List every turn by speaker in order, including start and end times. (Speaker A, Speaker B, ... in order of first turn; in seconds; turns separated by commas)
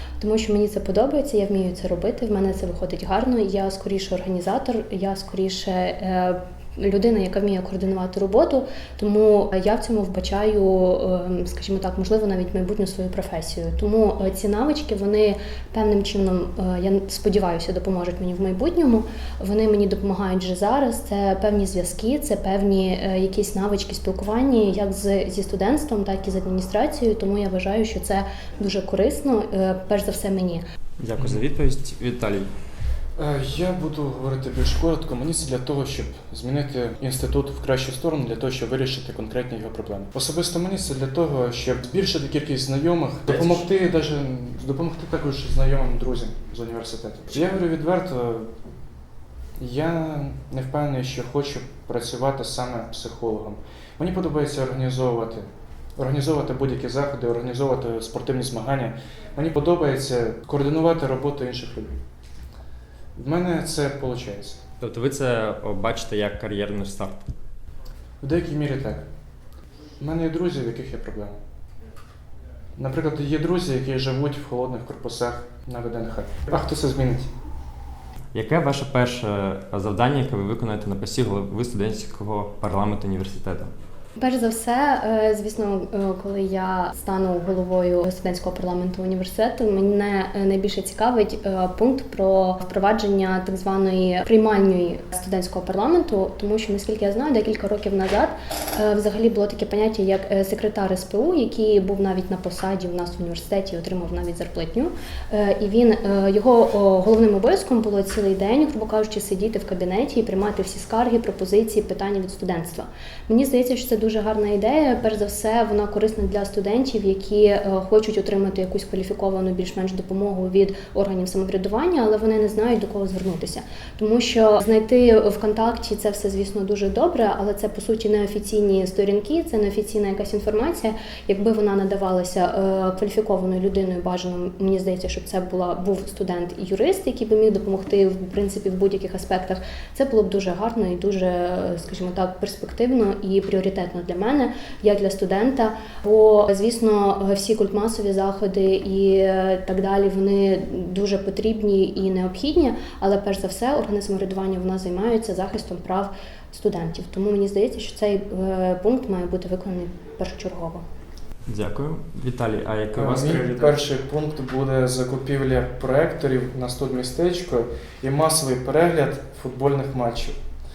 Speaker A: 0.2-30.6, Speaker B: 31.0-32.5, Speaker C: 33.2-48.5, Speaker B: 43.3-43.6, Speaker C: 49.6-62.0, Speaker C: 63.1-64.6, Speaker B: 64.8-67.3, Speaker C: 68.2-69.0, Speaker C: 70.0-71.4, Speaker C: 72.8-77.3, Speaker B: 78.3-83.7, Speaker A: 84.2-160.8, Speaker B: 161.5-163.8, Speaker C: 162.9-170.3